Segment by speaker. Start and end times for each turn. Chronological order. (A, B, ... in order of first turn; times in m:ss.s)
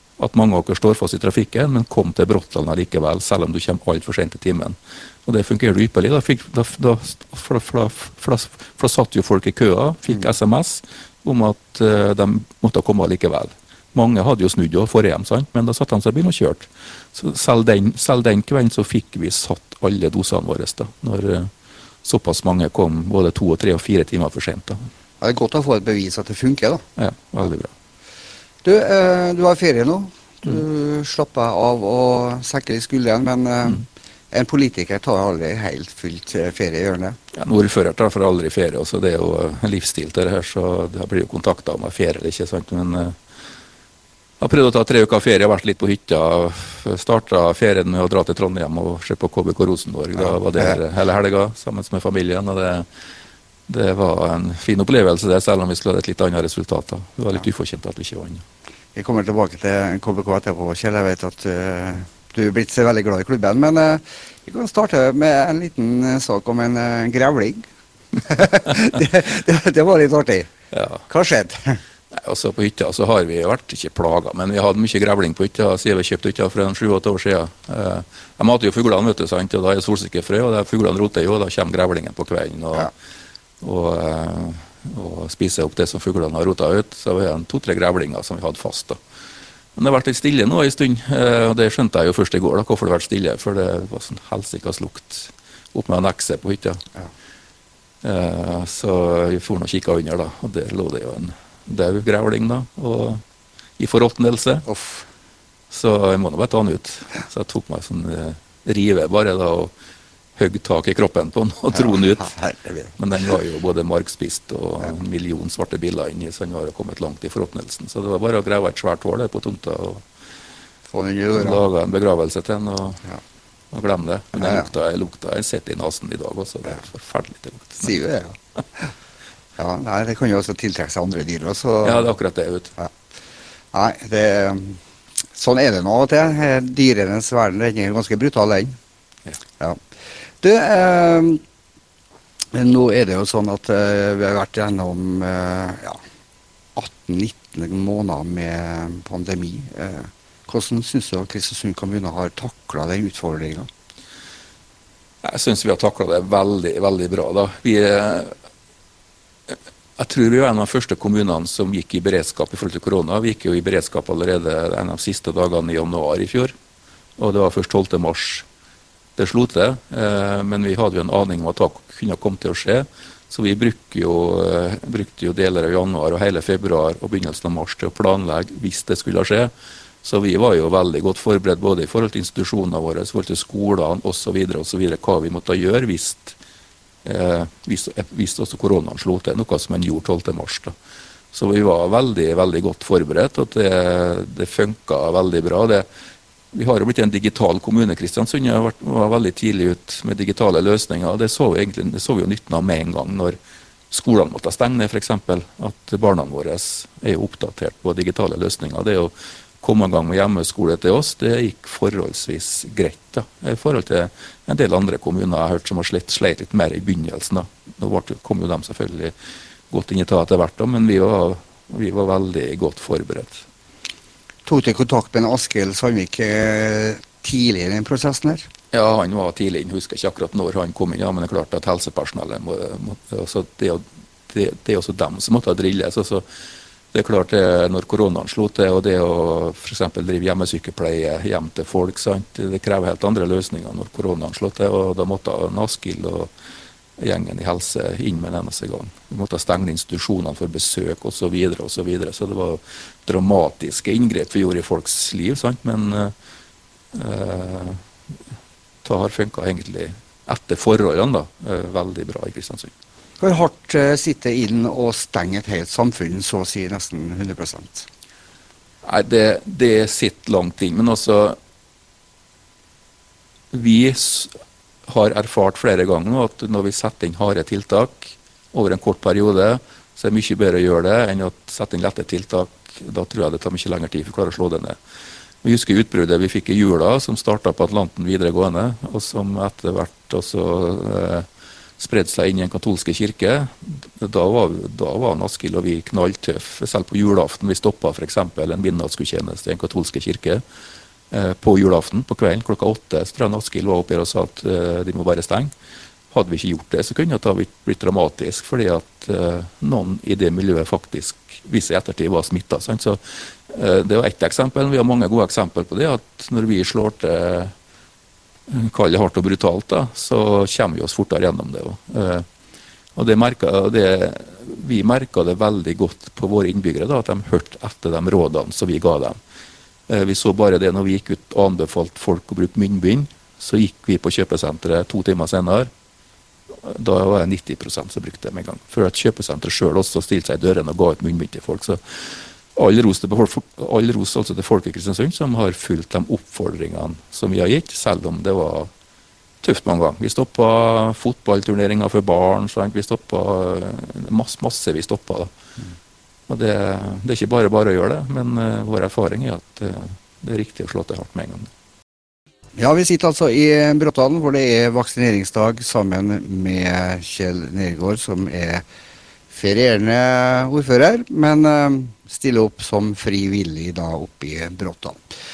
0:00.2-0:21.5 A
0:22.0-0:24.9 A
0:25.2-0:26.8 B
0:27.0-0:27.7 A
0:28.6-0:37.2 B
0:37.3-0:43.2 A
0:44.4-0:52.9 A
0:53.7-0:58.4 A
0:59.0-1:07.7 B
1:08.2-1:10.5 B
1:10.7-1:11.0 A
1:11.1-1:11.8 B
1:12.1-1:22.9 A
1:23.6-1:29.0 A
1:29.8-1:36.8 A
1:38.0-1:43.2 A
1:43.8-1:44.7 A
1:44.7-1:45.1 B
1:45.7-1:49.7 A
1:50.4-1:52.3 A
1:52.2-1:52.9 B
1:53.0-2:00.0 A
2:00.9-2:01.6 B
2:01.4-2:03.0 A
2:03.7-2:08.0 A
2:04.4-2:04.7 B
2:07.8-2:08.9 B
2:09.6-2:12.2 B
2:11.8-2:12.7 A
2:13.7-2:14.8 B
2:15.3-2:18.8 B
2:20.4-2:21.4 B
2:22.5-2:26.0 B
2:26.8-2:33.7 B
2:35.2-2:38.3 A
2:39.5-2:46.5 A
2:47.2-2:48.5 A
2:49.2-2:59.5 A
3:00.0-3:06.4 A
3:07.0-3:10.7 A
3:11.3-3:15.9 A
3:16.5-3:23.4 A
3:23.9-3:39.1 A
3:39.7-3:43.4 A
3:44.5-3:48.5 B
3:48.7-3:56.3 A
3:56.9-4:06.3 A
4:07.0-4:16.1 A
4:16.9-4:17.8 A
4:18.8-4:22.7 A
4:23.2-4:27.9 B
4:28.8-4:31.4 A
4:33.5-4:34.3 A
4:34.9-4:44.8 A
4:45.4-4:51.3 A
4:51.8-5:00.4 A
5:01.1-5:05.5 A
5:06.1-5:17.5 A
5:18.5-5:22.3 A
5:23.0-5:29.2 A
5:29.9-5:35.7 A
5:36.5-5:42.0 A
5:42.5-5:48.7 A
5:49.4-5:55.3 A
5:56.3-6:01.5 A
6:02.6-6:08.6 B
6:09.3-6:15.1 B